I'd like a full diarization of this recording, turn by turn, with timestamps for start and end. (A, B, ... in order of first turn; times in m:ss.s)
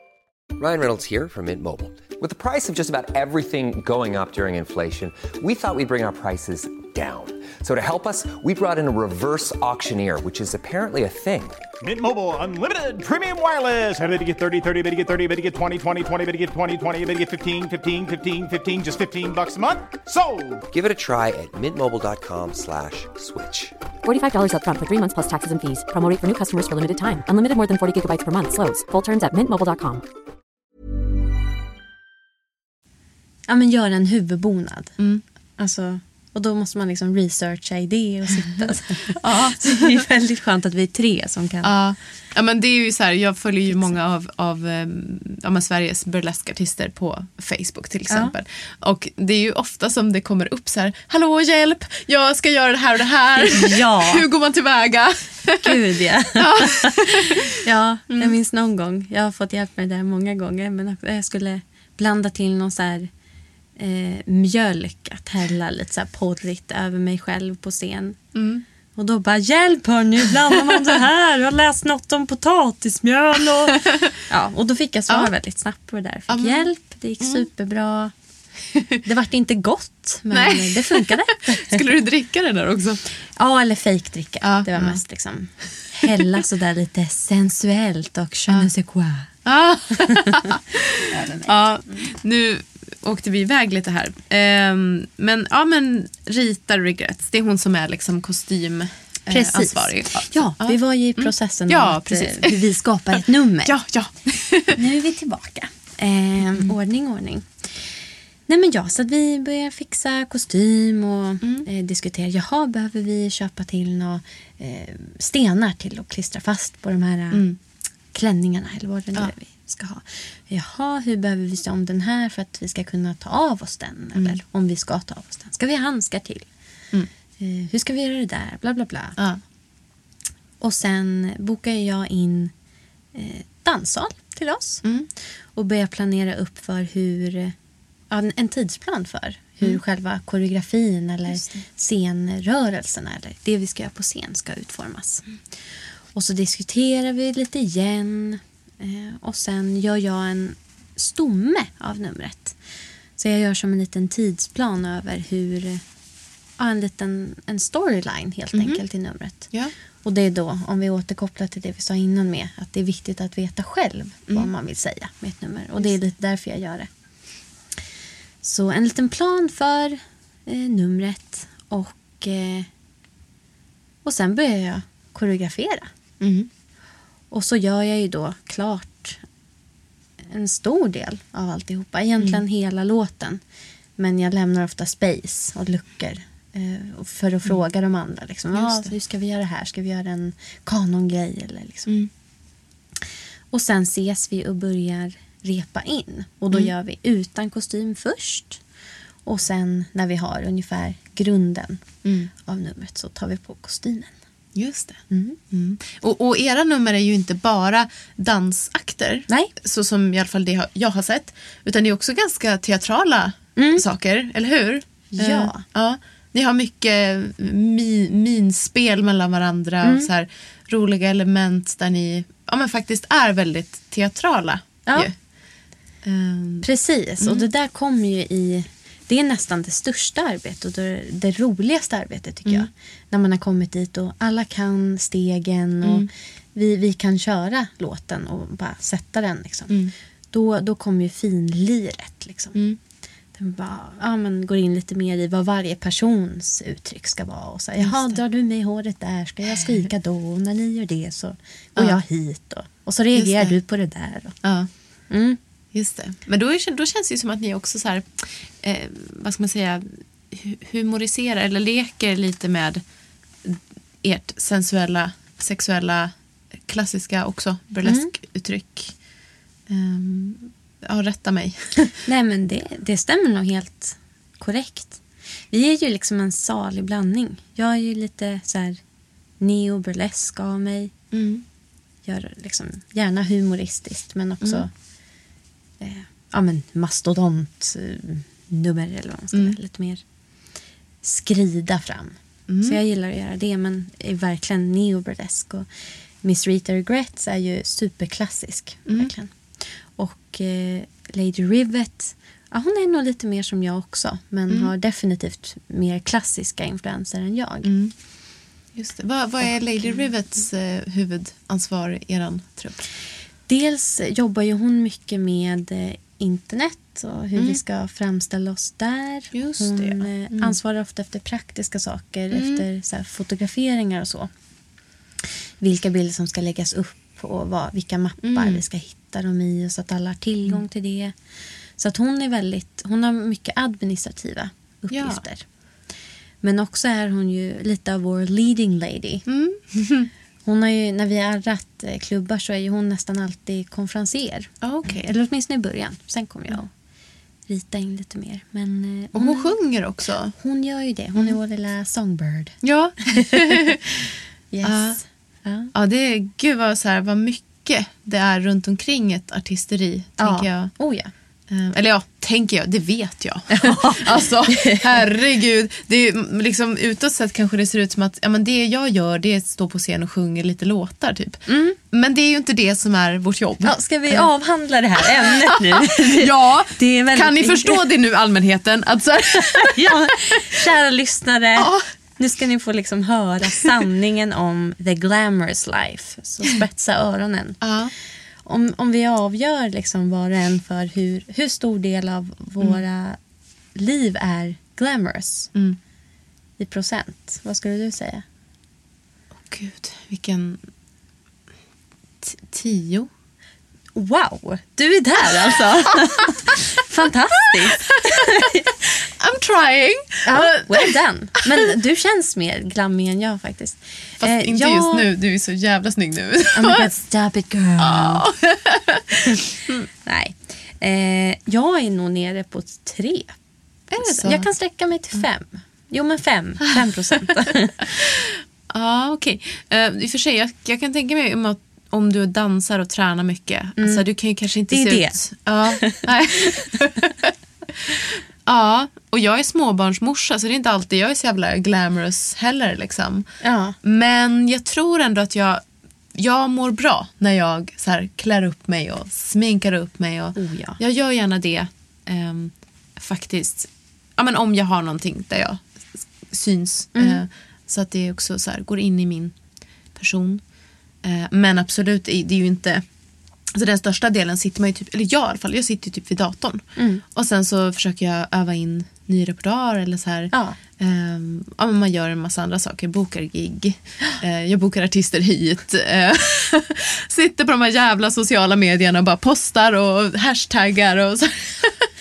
0:00.6-0:11.6 A
0:11.8-0:20.6 B
0:20.7-0:23.7 A
0:24.0-0:30.0 C
0:33.5-0:35.0 D
0:35.0-0:35.2 E
0:35.6-0:41.7 D
0:39.1-0:40.0 E
0:41.6-0:55.8 E
0:43.7-0:43.9 D
0:53.4-0:54.2 D
0:55.6-1:03.1 D
0:56.4-0:57.4 E
0:58.1-0:58.4 E
1:03.8-1:08.2 D
1:08.3-1:08.6 E
1:09.0-1:18.1 D
1:16.3-1:16.7 E
1:17.2-1:17.4 E
1:19.0-1:21.8 D
1:20.3-1:23.0 E
1:23.4-1:29.3 D
1:24.4-1:25.0 E
1:29.4-1:44.8 E
1:31.1-1:32.1 D
1:39.3-1:43.7 D
1:44.7-1:48.0 D
1:48.5-1:57.4 D
1:57.3-1:57.6 E
1:58.1-2:06.5 D
2:04.1-2:04.4 E
2:07.4-2:09.2 D
2:10.6-2:12.5 D
2:13.1-2:14.8 D
2:14.8-2:15.1 E
2:15.5-2:17.5 D
2:18.1-2:25.2 D
2:21.3-2:21.6 E
2:26.1-2:32.6 D
2:33.2-2:35.8 D
2:36.6-2:46.9 D
2:38.5-2:38.8 E
2:48.4-2:52.7 D
2:54.0-2:55.9 D
2:56.2-2:56.5 E
2:57.3-2:59.2 D
3:00.3-3:03.4 D
3:04.0-3:11.9 D
3:08.5-3:08.9 E
3:13.5-3:18.6 D
3:19.2-3:21.8 D
3:22.0-3:22.3 E
3:22.4-3:24.1 D
3:24.6-3:45.1 E
3:25.1-3:25.4 D
3:33.6-3:33.8 D
3:35.1-3:35.6 D
3:46.0-3:46.7 E
3:46.6-3:59.8 D
3:47.2-3:47.5 E
3:55.8-3:56.1 E
3:59.7-3:59.9 E
4:00.3-4:02.6 D
4:03.3-4:14.4 D
4:07.8-4:08.2 E
4:09.5-4:09.8 E
4:13.1-4:13.5 E
4:14.4-4:14.7 E
4:15.1-4:15.4 D
4:15.7-4:22.8 E
4:23.4-4:26.1 E
4:26.6-4:29.0 E
4:29.7-4:32.0 E
4:32.0-4:38.8 D
4:39.4-4:40.9 D
4:41.1-4:41.4 E
4:42.0-4:44.7 D
4:44.4-4:44.7 E
4:45.8-4:50.0 D
4:51.0-4:55.7 D
4:52.5-4:52.8 E
4:56.2-5:07.7 D
5:07.6-5:07.9 E
5:08.7-5:12.9 E
5:13.5-5:24.3 D
5:17.3-5:17.6 E
5:19.3-5:20.6 E
5:22.3-5:22.6 E
5:25.6-5:31.1 D
5:28.2-5:28.6 E
5:31.8-5:35.4 D
5:34.9-5:35.2 E
5:36.4-5:39.2 D
5:39.3-5:40.1 E
5:40.4-5:46.7 D
5:44.6-5:45.1 E
5:47.5-5:49.5 D
5:49.1-5:50.3 E
5:50.4-5:52.6 D
5:52.6-5:53.8 E
5:53.1-5:53.8 D
5:54.5-5:55.7 D
5:54.6-5:55.0 E
5:55.7-6:00.7 E
6:00.2-6:01.1 D
6:01.5-6:14.3 E
6:03.5-6:05.0 D
6:11.5-6:11.8 D
6:13.6-6:17.8 D
6:15.0-6:20.3 E
6:19.4-6:27.6 D
6:21.6-6:21.8 E
6:27.6-6:27.9 E
6:28.4-6:33.2 D
6:33.7-6:35.5 D
6:36.6-6:38.2 D
6:39.4-6:40.6 E
6:42.2-6:43.1 E
6:43.9-6:48.6 D
6:47.8-6:50.9 E
6:50.2-6:55.1 D
6:54.2-6:56.9 E
6:56.5-6:58.2 D
6:57.8-6:59.8 E
7:00.0-7:03.3 D
7:03.9-7:04.5 E
7:04.0-7:07.9 D
7:07.9-7:23.3 E
7:13.8-7:14.0 D
7:14.7-7:15.2 D
7:23.4-7:23.8 D
7:23.8-7:25.6 E
7:26.1-7:35.6 E
7:30.4-7:30.8 D
7:36.3-7:39.3 E
7:36.9-7:37.2 D
7:39.9-7:40.4 E
7:41.0-7:42.8 E
7:43.5-8:01.9 E
7:46.8-7:47.0 D
7:50.3-7:50.6 D